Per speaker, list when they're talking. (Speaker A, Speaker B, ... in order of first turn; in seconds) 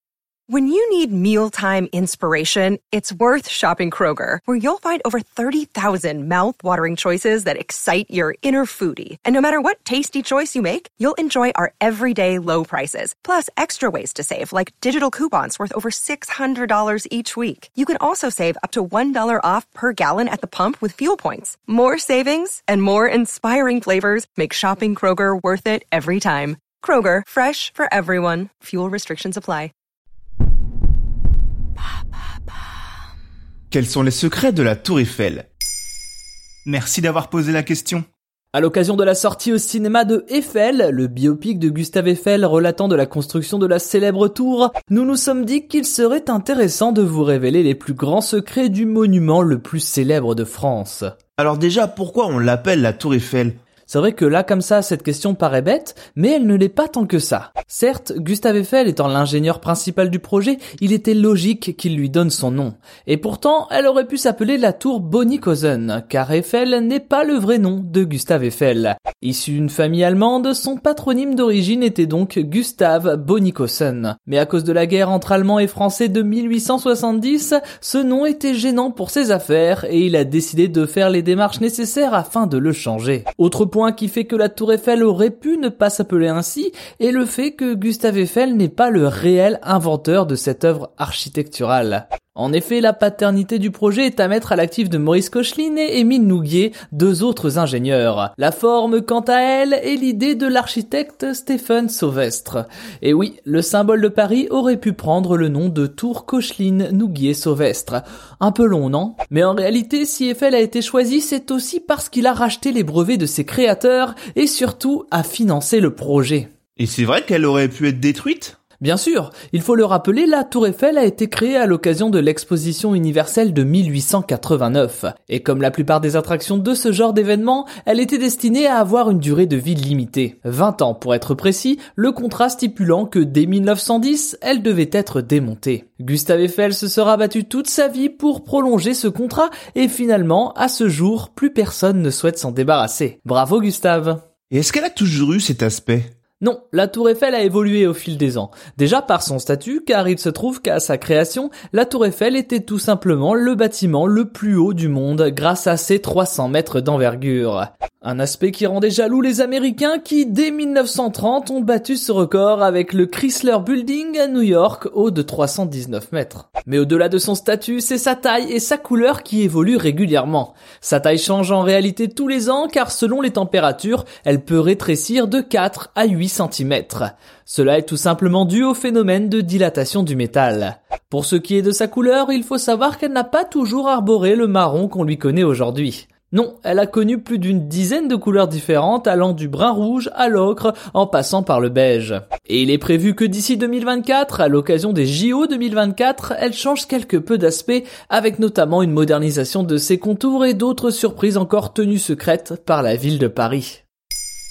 Speaker A: 0.5-29.7
Speaker B: 33.7-35.5, 36.6-38.0, 51.4-53.6, 116.8-118.6, 144.5-146.1
Speaker C: 38.5-51.1, 53.9-116.5, 118.8-144.2, 146.4-203.8